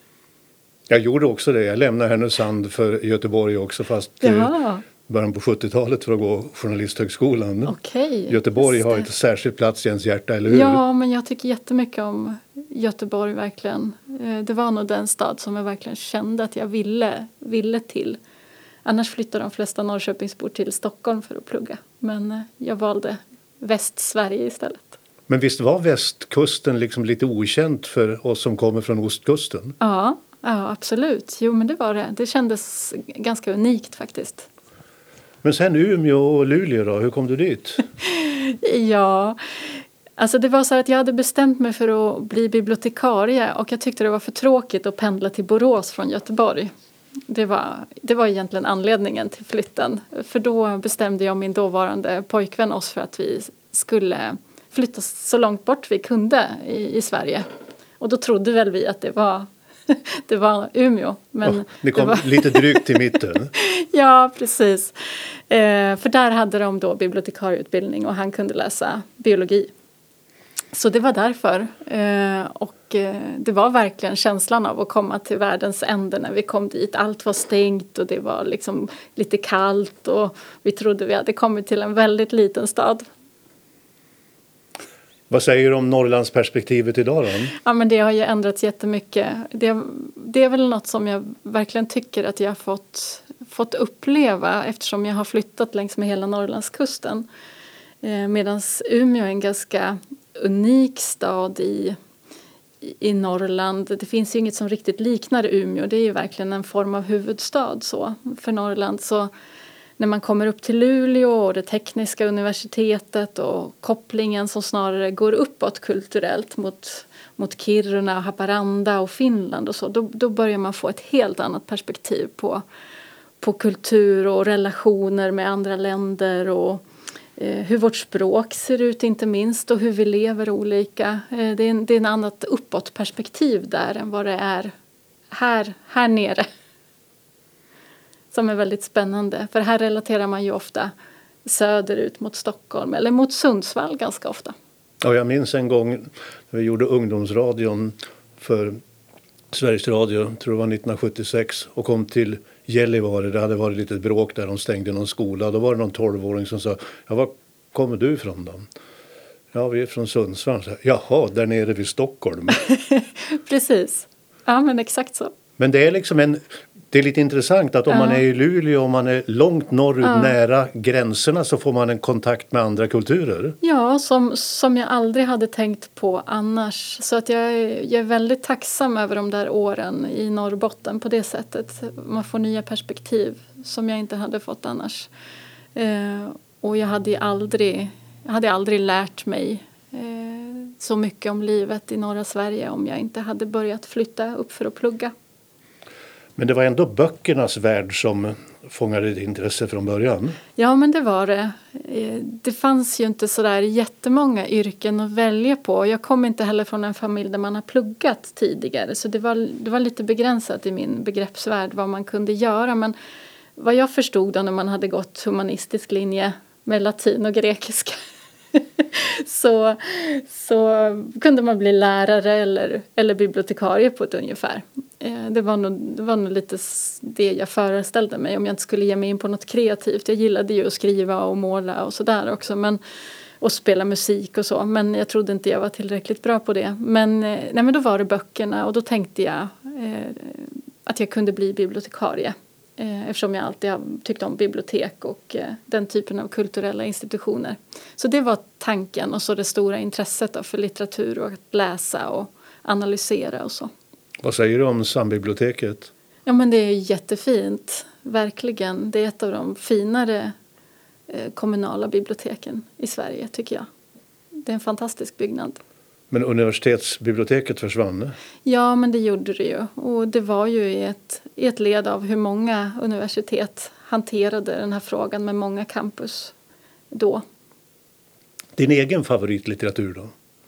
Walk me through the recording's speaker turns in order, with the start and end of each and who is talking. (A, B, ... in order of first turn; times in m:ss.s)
0:00.9-0:07.8 A
0:04.2-0:04.8 B
0:07.6-0:09.0 B
0:08.3-0:10.8 A
0:10.5-0:18.2 B
0:18.8-0:25.0 B
0:25.3-0:29.8 A
0:29.8-0:34.5 B
0:35.4-0:37.9 A
0:38.0-0:46.7 B
0:47.3-0:57.5 B
0:58.0-1:09.7 B
1:01.4-1:03.5 A
1:10.7-1:23.1 B
1:25.3-1:27.6 A
1:27.6-1:37.3 B
1:38.0-1:42.0 B
1:42.8-1:49.3 B
1:50.0-2:02.6 B
2:03.4-2:06.8 B
2:07.4-2:14.7 B
2:15.3-2:16.5 B
2:18.3-2:20.9 B
2:21.4-2:24.5 B
2:25.0-2:28.8 A
2:29.5-2:38.7 A
2:39.5-2:42.6 A
2:42.6-2:45.3 B
2:45.6-2:53.6 A
2:47.9-2:48.2 B
2:50.0-2:50.3 B
2:53.6-3:05.1 B
3:05.8-3:15.1 B
3:16.4-3:20.4 A
3:20.6-3:33.0 B
3:33.6-3:38.0 B
3:38.5-3:52.8 B
3:53.4-4:13.7 B
4:14.2-4:15.9 A
4:16.3-4:20.3 B
4:21.1-4:23.7 B
4:24.4-4:25.6 B
4:26.1-4:28.2 A
4:28.4-4:36.3 B
4:36.9-4:37.2 B
4:38.6-4:40.1 A